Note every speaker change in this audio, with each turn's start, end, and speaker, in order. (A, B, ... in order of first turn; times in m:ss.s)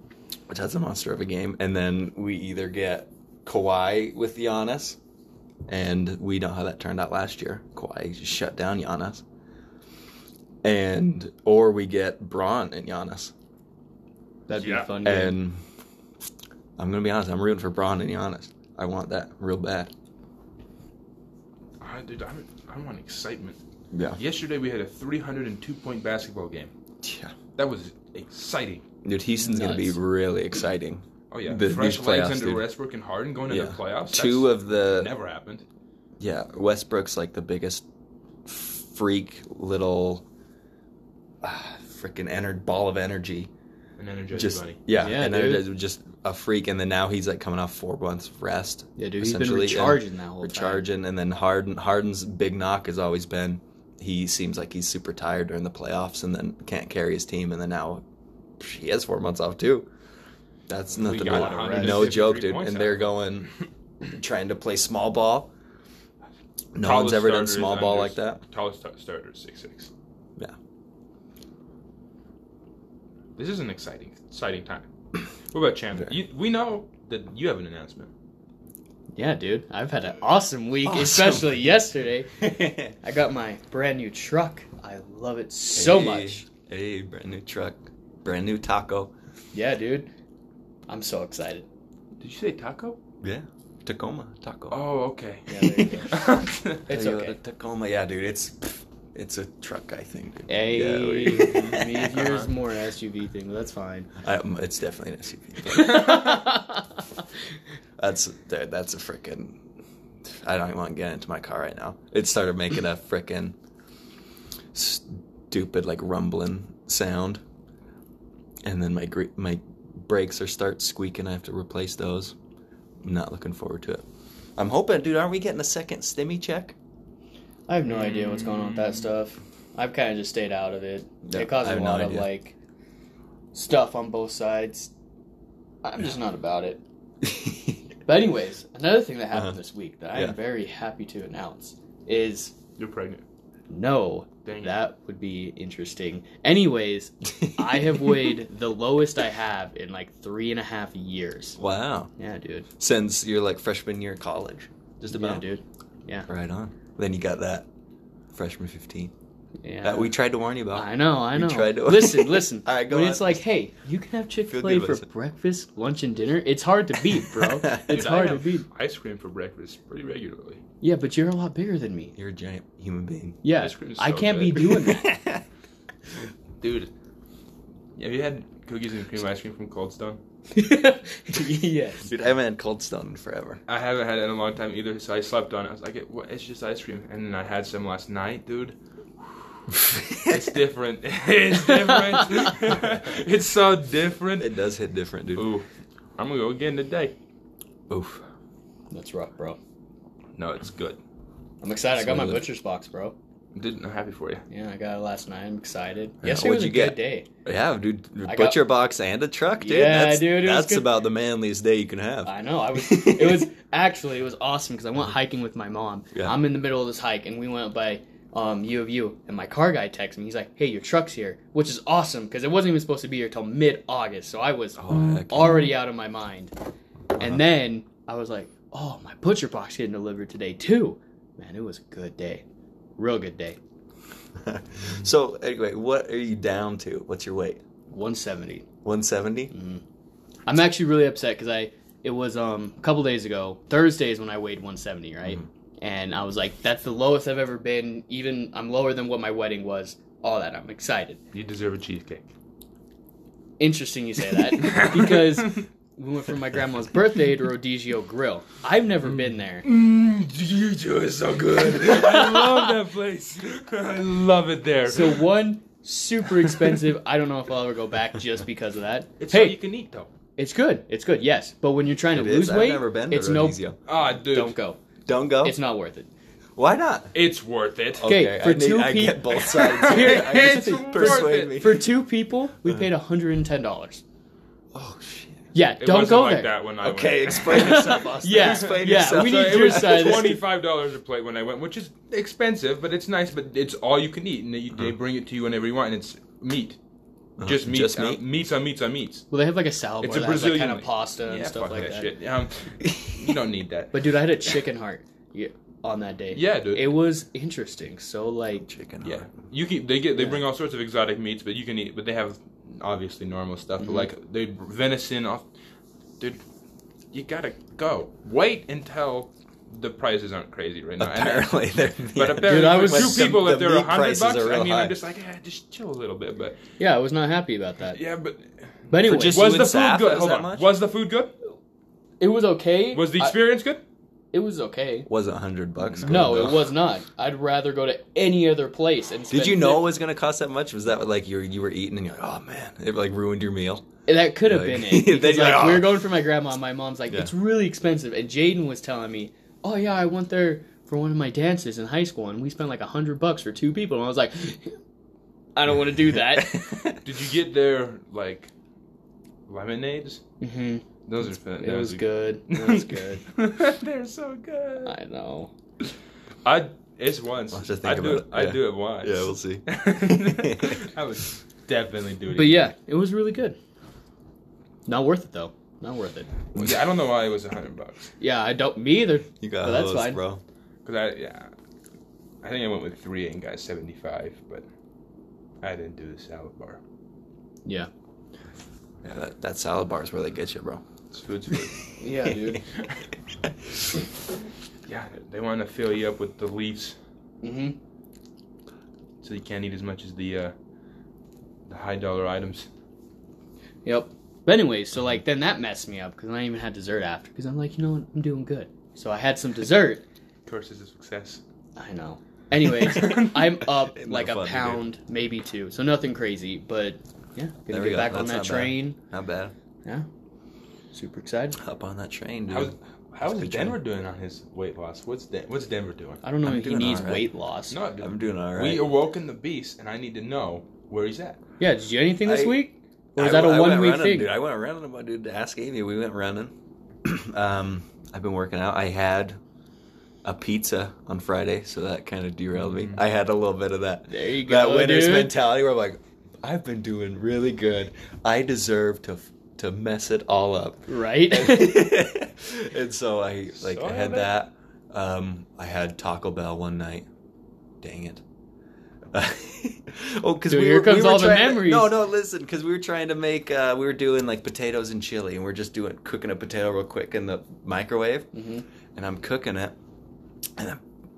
0:00.5-0:05.0 A
0:05.7-0:09.2 A
0:10.6-0:13.3 A
0:14.5-0:15.4 B
0:14.6-0:14.9 C
0:15.0-0:15.6 A
0:16.8-0:19.9 A
0:21.8-0:23.6 C
0:23.9-0:24.2 A
0:24.2-0:26.7 C
0:27.0-0:27.4 A
0:27.6-0:28.8 C
0:29.0-0:32.6 A
0:29.4-0:30.0 B
0:31.3-0:35.6 C
0:33.5-0:35.1 A
0:36.2-0:37.8 A
0:38.4-0:40.2 A
0:41.4-0:43.5 A
0:44.0-0:44.8 C
0:44.3-0:58.0 A
0:44.9-0:45.6 B
0:49.0-0:50.8 B
0:58.6-0:59.9 A
1:00.7-1:03.5 A
1:01.0-1:03.1 C
1:01.1-1:02.2 B
1:04.0-1:05.5 A
1:06.7-1:08.4 A
1:06.8-1:09.9 C
1:13.4-1:14.9 C
1:15.5-1:18.1 C
1:19.1-1:26.4 B
1:20.8-1:21.5 A
1:22.4-1:22.9 A
1:25.7-1:29.1 A
1:29.5-1:30.1 B
1:30.9-1:31.7 B
1:32.2-1:33.0 C
1:33.2-1:34.8 A
1:34.7-1:36.8 C
1:35.5-1:36.1 B
1:36.9-1:37.4 B
1:36.9-1:42.1 A
1:40.5-1:44.1 B
1:41.4-1:42.5 C
1:44.2-1:46.4 A
1:45.8-1:46.7 B
1:48.0-1:49.6 A
1:50.2-1:53.5 A
1:54.7-1:57.4 A
1:58.6-2:02.3 A
2:03.0-2:04.0 A
2:04.6-2:06.8 A
2:07.7-2:12.6 B
2:07.9-2:09.0 C
2:11.2-2:12.3 A
2:13.5-2:14.9 B
2:15.8-2:16.8 B
2:17.2-2:17.8 A
2:18.0-2:22.5 B
2:22.8-2:23.2 C
2:23.7-2:31.6 B
2:24.4-2:24.7 C
2:27.4-2:28.2 A
2:31.6-2:32.1 A
2:32.2-2:32.7 B
2:32.8-2:35.4 A
2:35.1-2:36.3 B
2:36.3-2:37.7 A
2:38.3-2:39.1 A
2:39.6-2:40.1 B
2:39.8-2:43.4 A
2:40.7-2:48.7 B
2:44.5-2:45.0 A
2:47.3-2:48.0 A
2:47.9-2:50.6 C
2:50.8-2:52.2 B
2:52.2-2:53.4 A
2:53.4-2:55.2 B
2:53.6-2:54.7 C
2:54.7-2:55.4 A
2:56.6-2:56.9 C
2:58.0-3:00.2 C
3:00.5-3:02.1 B
3:02.0-3:03.6 A
3:03.7-3:08.8 C
3:09.3-3:09.6 C
3:09.7-3:10.5 A
3:10.2-3:14.5 C
3:14.4-3:15.5 A
3:15.4-3:15.6 C
3:16.2-3:17.1 C
3:17.9-3:18.2 A
3:18.9-3:19.6 B
3:20.4-3:21.0 C
3:21.6-3:23.1 B
3:21.9-3:22.4 A
3:23.5-3:24.4 C
3:24.5-3:27.3 B
3:26.2-3:33.5 A
3:28.2-3:28.6 B
3:29.6-3:30.9 B
3:32.2-3:46.5 B
3:44.8-3:45.6 A
3:47.2-3:52.4 B
3:53.0-3:53.6 B
3:54.4-3:57.6 A
3:57.9-3:58.6 B
3:58.8-3:59.5 A
3:59.5-3:59.8 B
4:00.5-4:11.2 B
4:11.3-4:12.2 C
4:13.6-4:19.6 B
4:14.6-4:15.6 C
4:19.6-4:25.3 C
4:21.8-4:22.7 B
4:24.9-4:29.6 B
4:29.2-4:30.1 C
4:30.4-4:33.6 B
4:32.1-4:33.8 A
4:33.9-4:34.5 C
4:34.2-4:34.8 B
4:35.0-4:35.6 A
4:35.4-4:36.1 B
4:36.6-4:37.1 A
4:37.1-4:38.1 C
4:38.0-4:41.9 A
4:38.0-4:44.0 B
4:39.4-4:41.7 C
4:44.7-4:45.4 A
4:45.5-4:46.5 B
4:45.8-4:47.6 C
4:46.8-4:50.4 A
4:47.3-4:50.4 B
4:48.3-4:56.8 C
4:57.4-4:58.2 A
4:57.4-4:59.3 C
4:59.3-5:02.1 B
5:00.0-5:04.0 C
5:02.8-5:03.3 A
5:03.9-5:08.6 B
5:06.3-5:07.0 C
5:08.6-5:09.2 A
5:09.0-5:15.4 C
5:13.8-5:14.1 B
5:17.1-5:26.6 C
5:21.0-5:25.0 A
5:22.4-5:23.3 B
5:26.8-5:28.0 B
5:27.9-5:31.3 C
5:28.9-5:29.4 B
5:29.0-5:30.7 A
5:32.2-5:33.4 B
5:32.9-5:33.8 C
5:34.3-5:35.1 B
5:35.1-5:36.7 A
5:36.0-5:39.9 B
5:39.3-5:43.8 A
5:44.1-5:54.8 B
5:44.4-5:46.0 A
5:55.5-5:56.8 B
5:56.3-5:57.0 A
5:57.0-5:58.5 C
5:59.5-6:00.2 C
6:00.4-6:00.8 B
6:01.0-6:04.9 C
6:01.6-6:03.2 B
6:04.8-6:05.5 B
6:06.4-6:12.7 C
6:07.5-6:10.8 A
6:12.3-6:13.6 B
6:14.9-6:16.3 B
6:16.5-6:18.1 C
6:16.6-6:16.8 A
6:18.2-6:20.2 B
6:19.4-6:20.4 A
6:20.8-6:21.5 C
6:22.4-6:24.6 C
6:25.6-6:26.8 C
6:27.6-6:27.9 B
6:29.0-6:30.8 A
6:31.1-6:31.8 C
6:32.0-6:32.6 B
6:32.2-6:32.6 A
6:34.9-6:36.9 C
6:37.4-6:37.8 B
6:39.2-6:40.5 C
6:41.7-6:42.7 C
6:43.8-6:50.0 B
6:50.4-6:51.4 C
6:51.8-6:59.0 B
6:52.9-6:53.4 C
6:53.9-6:54.8 A
6:57.7-6:59.5 A
7:00.9-7:01.6 B
7:01.6-7:02.7 A
7:02.5-7:06.2 C
7:03.2-7:03.8 A
7:06.2-7:07.8 B
7:06.4-7:07.3 A
7:07.7-7:11.4 C
7:08.0-7:08.9 A
7:11.6-7:14.3 B
7:12.2-7:12.6 A
7:13.2-7:16.5 A
7:17.0-7:19.4 A
7:20.2-7:37.1 A
7:22.6-7:23.0 C
7:24.1-7:25.3 B
7:30.9-7:31.9 B
7:33.6-7:34.3 C
7:37.8-7:38.2 A
7:39.1-7:48.3 A
7:40.5-7:41.9 B
7:48.3-7:48.6 B
7:48.9-7:49.8 A
7:50.6-7:50.8 A